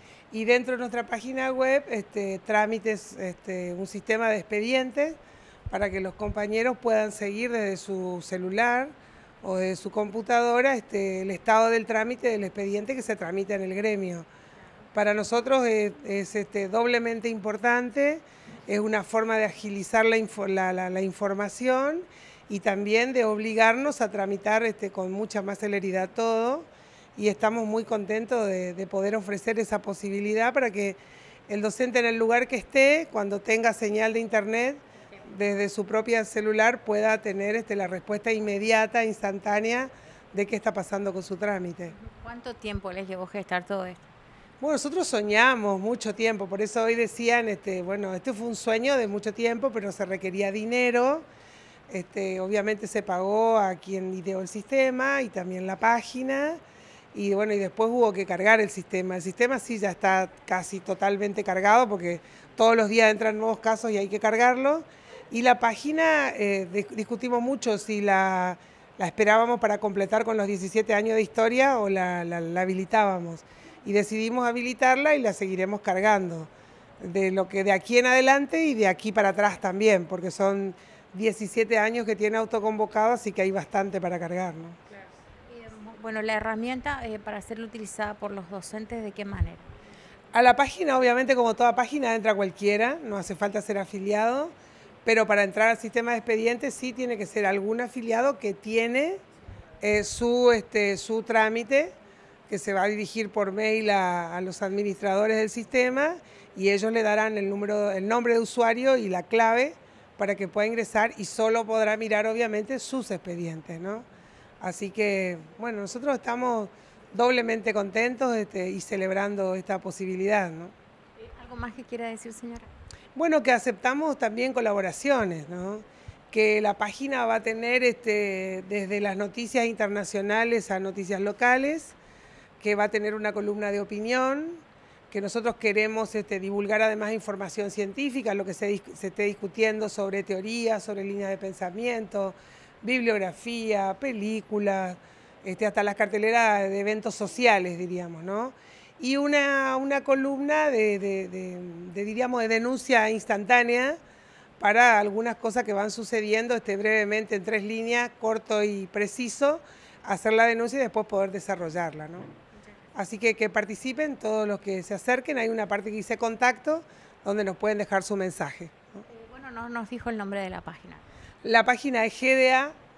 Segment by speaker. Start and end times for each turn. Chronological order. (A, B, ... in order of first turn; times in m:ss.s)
0:00.3-0:05.2 A
0:05.7-0:14.3 A
0:14.9-0:42.0 A
0:42.0-0:44.1 B
0:44.6-0:51.3 A
0:51.9-0:56.6 A
0:57.1-1:24.8 A
1:25.5-1:29.7 B
1:30.3-1:34.5 A
1:35.1-1:39.2 A
1:39.8-1:41.9 A
1:42.5-1:54.1 A
1:54.6-2:00.7 A
2:01.2-2:02.7 B
2:03.2-2:12.0 A
2:12.6-2:34.0 A
2:34.6-2:42.3 A
2:43.0-2:49.0 A
2:49.1-2:51.0 B
2:51.4-2:52.7 A